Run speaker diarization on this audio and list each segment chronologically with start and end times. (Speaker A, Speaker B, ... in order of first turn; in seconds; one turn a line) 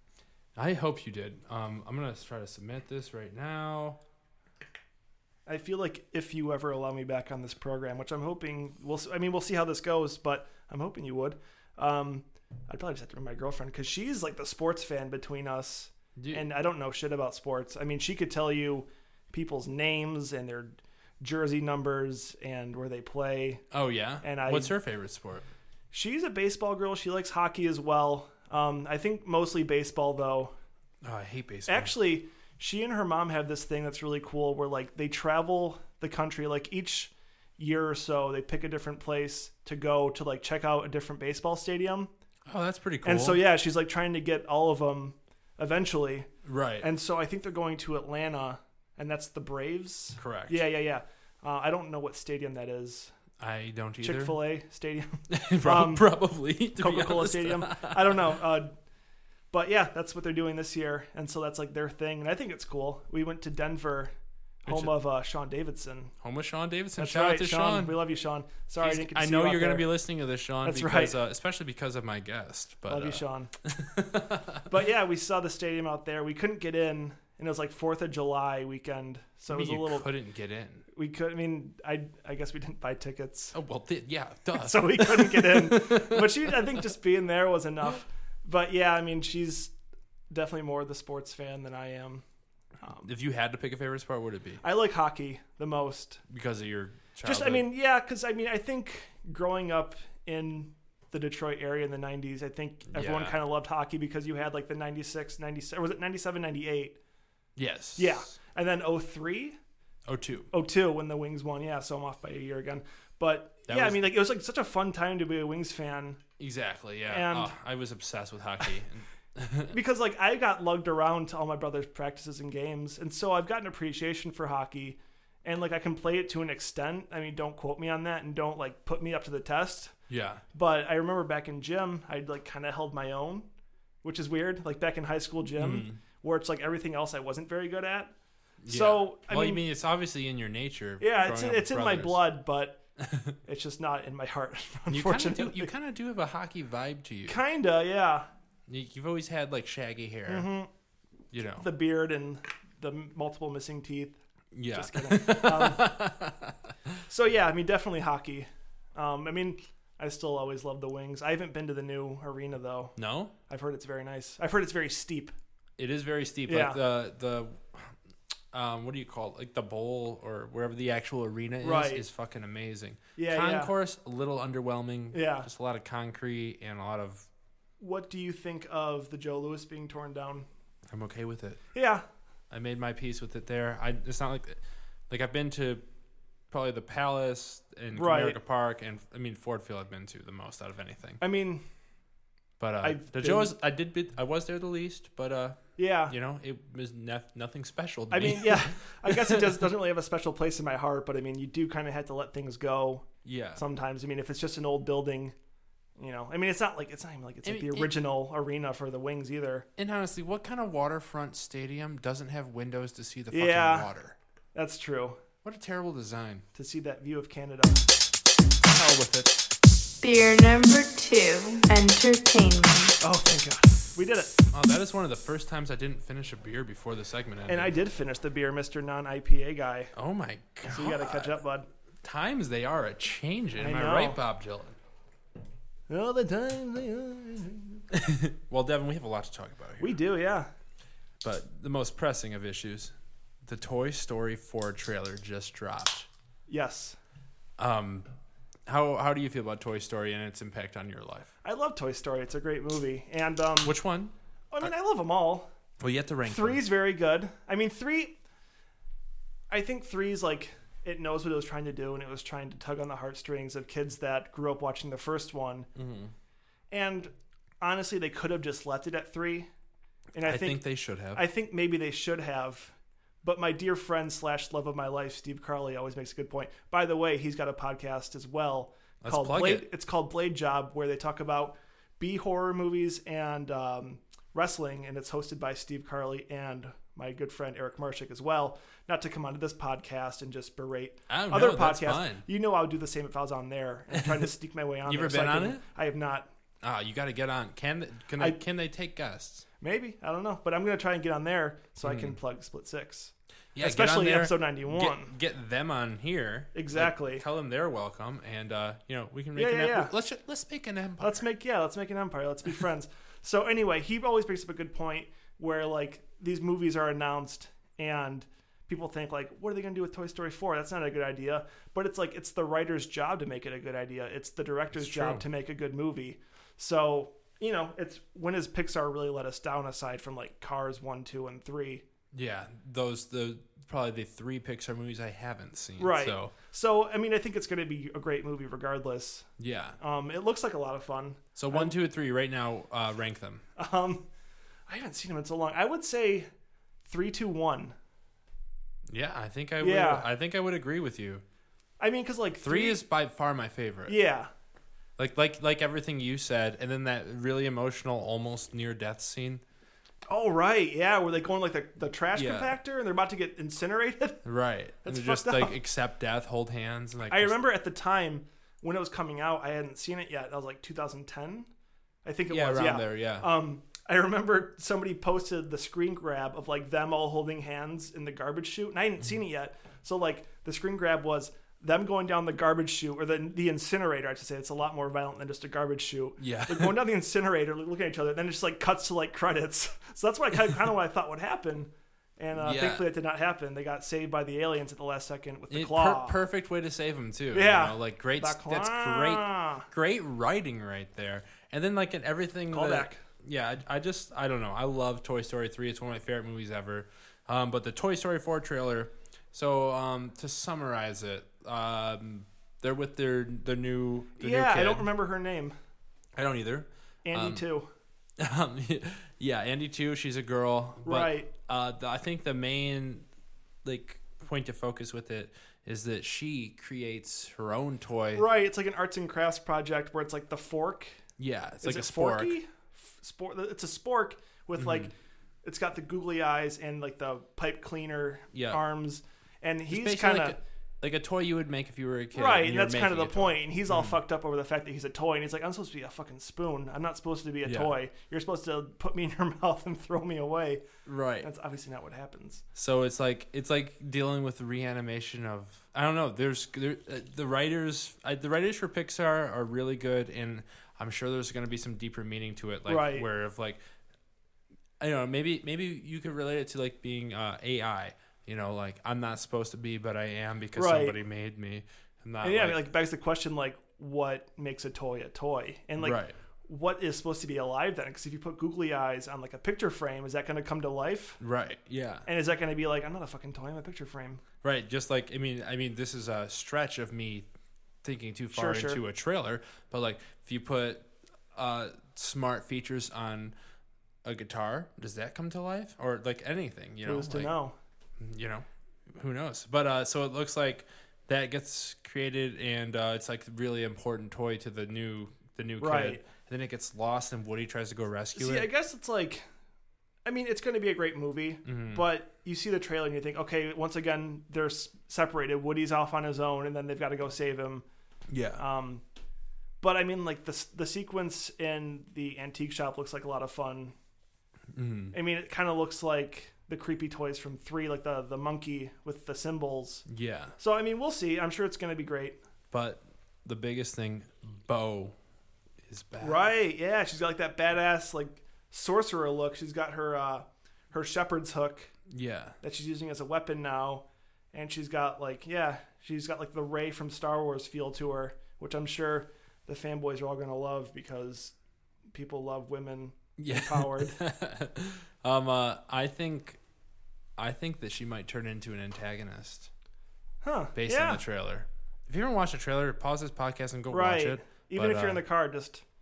Speaker A: 0.5-4.0
Speaker B: 5.5-23.6
Speaker A: 16.2-16.4
Speaker A: 23.7-25.4
Speaker B: 24.2-24.7
Speaker B: 25.9-30.5
Speaker A: 31.0-31.9
Speaker B: 31.7-42.1
Speaker A: 42.5-43.4
Speaker B: 43.0-46.3
Speaker A: 46.4-46.9
Speaker B: 46.8-53.1
Speaker A: 50.2-50.6
Speaker A: 53.4-54.4
Speaker B: 54.0-56.1
Speaker A: 55.3-58.2
Speaker B: 56.7-58.7
Speaker B: 59.5-64.1
Speaker B: 64.6-66.1
Speaker A: 64.7-64.9
Speaker A: 66.2-68.0
Speaker B: 67.0-69.9
Speaker A: 68.8-74.7
Speaker B: 70.6-71.2
Speaker B: 72.9-73.5
Speaker B: 74.7-80.1
Speaker A: 79.5-80.8
Speaker B: 80.9-83.5
Speaker A: 83.5-86.6
Speaker B: 84.6-89.7
Speaker B: 90.3-92.2
Speaker B: 92.8-93.1
Speaker A: 93.0-94.6
Speaker B: 94.6-96.2
Speaker A: 96.3-97.7
Speaker B: 97.2-107.0
Speaker A: 102.9-103.4
Speaker A: 107.5-108.3
Speaker B: 108.0-109.6
Speaker A: 110.0-110.5
Speaker B: 110.5-116.2
Speaker A: 113.7-114.1
Speaker A: 116.4-119.7
Speaker B: 117.0-117.5
Speaker B: 119.7-129.9
Speaker A: 130.1-130.4
Speaker B: 130.5-133.4
Speaker B: 134.0-138.1
Speaker A: 135.6-136.0
Speaker A: 138.6-142.2
Speaker B: 138.7-139.6
Speaker B: 141.0-142.8
Speaker A: 143.0-143.3
Speaker B: 143.4-145.7
Speaker A: 144.9-147.4
Speaker B: 147.2-148.2
Speaker A: 148.7-150.5
Speaker B: 150.3-150.7
Speaker A: 151.3-151.7
Speaker B: 151.6-154.2
Speaker A: 154.5-156.7
Speaker B: 154.7-155.9
Speaker B: 157.1-163.0
Speaker A: 162.9-163.3
Speaker B: 163.5-165.3
Speaker A: 165.8-167.9
Speaker B: 166.4-166.8
Speaker A: 168.5-177.3
Speaker B: 171.6-172.0
Speaker B: 173.2-173.7
Speaker B: 175.1-175.5
Speaker B: 177.8-180.5
Speaker A: 180.9-181.6
Speaker B: 181.7-182.0
Speaker A: 182.5-184.6
Speaker A: 185.1-185.8
Speaker A: 186.5-191.2
Speaker B: 187.9-188.4
Speaker B: 191.2-191.6
Speaker A: 192.6-199.6
Speaker B: 192.8-193.5
Speaker B: 195.8-196.1
Speaker B: 198.1-205.3
Speaker A: 203.2-203.6
Speaker B: 206.0-209.7
Speaker A: 207.4-207.9
Speaker A: 209.8-214.2
Speaker B: 213.3-213.9
Speaker B: 214.5-215.2
Speaker A: 215.4-216.4
Speaker B: 216.5-217.8
Speaker B: 218.7-219.4
Speaker C: 220.0-223.0
Speaker B: 223.0-224.3
Speaker A: 224.5-227.7
Speaker B: 227.5-229.9
Speaker A: 229.9-231.4
Speaker B: 230.6-231.7
Speaker A: 232.0-234.8
Speaker B: 233.6-234.2
Speaker B: 235.9-237.8
Speaker A: 237.9-240.0
Speaker B: 239.8-240.5
Speaker A: 241.2-246.1
Speaker B: 246.5-247.0
Speaker A: 247.6-248.1
Speaker A: 248.7-251.3
Speaker B: 251.4-253.8
Speaker A: 253.6-254.7
Speaker B: 254.5-255.5
Speaker A: 255.8-256.6
Speaker B: 256.2-258.1
Speaker B: 259.5-265.7
Speaker A: 265.7-266.1
Speaker B: 266.7-269.5
Speaker B: 270.1-296.3
Speaker A: 270.2-271.2
Speaker A: 279.0-279.6
Speaker A: 291.1-292.2
Speaker A: 294.0-294.2
Speaker A: 294.9-295.6
Speaker A: 296.6-299.4
Speaker B: 299.6-305.1
Speaker A: 301.8-302.2
Speaker A: 303.5-311.2
Speaker B: 306.5-307.2
Speaker B: 309.4-309.9
Speaker B: 311.0-331.8
Speaker A: 324.7-325.2
Speaker A: 332.1-336.3
Speaker B: 335.8-339.3
Speaker A: 339.4-339.8
Speaker B: 339.8-341.7
Speaker A: 341.4-343.4
Speaker B: 343.6-344.1
Speaker B: 344.7-346.3
Speaker B: 346.9-347.7
Speaker A: 348.9-351.2
Speaker B: 349.6-350.1
Speaker B: 351.8-352.8
Speaker A: 352.4-354.0
Speaker B: 353.9-354.3
Speaker A: 355.0-359.4
Speaker B: 360.1-364.2
Speaker A: 362.1-362.5
Speaker A: 364.2-367.4
Speaker B: 364.8-365.6
Speaker B: 367.1-371.5
Speaker B: 372.0-396.2
Speaker A: 372.3-373.3
Speaker A: 386.2-386.7
Speaker A: 392.4-392.8
Speaker A: 395.5-414.9
Speaker B: 397.3-399.7
Speaker B: 402.5-403.0
Speaker B: 414.2-415.5
Speaker A: 416.1-417.4
Speaker B: 417.0-417.7
Speaker A: 418.2-423.1
Speaker B: 420.8-421.3
Speaker A: 423.6-428.2
Speaker B: 428.1-431.0
Speaker A: 431.2-432.3
Speaker B: 431.6-434.9
Speaker A: 434.6-434.9
Speaker B: 435.4-440.4
Speaker A: 438.3-438.6
Speaker A: 439.7-444.0
Speaker B: 442.1-450.6
Speaker A: 447.4-447.7
Speaker A: 450.8-451.3
Speaker B: 451.2-452.4
Speaker A: 452.5-463.6
Speaker B: 462.7-463.1
Speaker A: 464.8-472.6
Speaker B: 470.6-471.0
Speaker B: 472.2-481.2
Speaker A: 475.8-476.1
Speaker A: 481.2-482.1
Speaker B: 482.1-484.2
Speaker A: 484.4-487.3
Speaker A: 487.8-493.3
Speaker B: 488.3-488.8
Speaker A: 494.0-497.3
Speaker B: 496.8-497.5
Speaker A: 498.0-508.5
Speaker B: 505.6-506.0
Speaker B: 508.1-509.2
Speaker B: 510.0-517.6
Speaker A: 511.4-511.9
Speaker A: 518.1-518.4
Speaker B: 518.4-518.8
Speaker B: 519.6-523.7
Speaker A: 524.5-524.9
Speaker B: 524.9-529.9
Speaker A: 529.9-530.3
Speaker B: 530.4-532.2
Speaker A: 532.5-535.0
Speaker A: 535.6-536.3
Speaker B: 536.0-541.7
Speaker A: 541.9-542.4
Speaker B: 542.4-551.3
Speaker B: 551.9-554.0
Speaker A: 553.2-556.4
Speaker A: 557.2-559.5
Speaker B: 560.2-561.0
Speaker A: 560.5-565.0
Speaker B: 563.7-565.6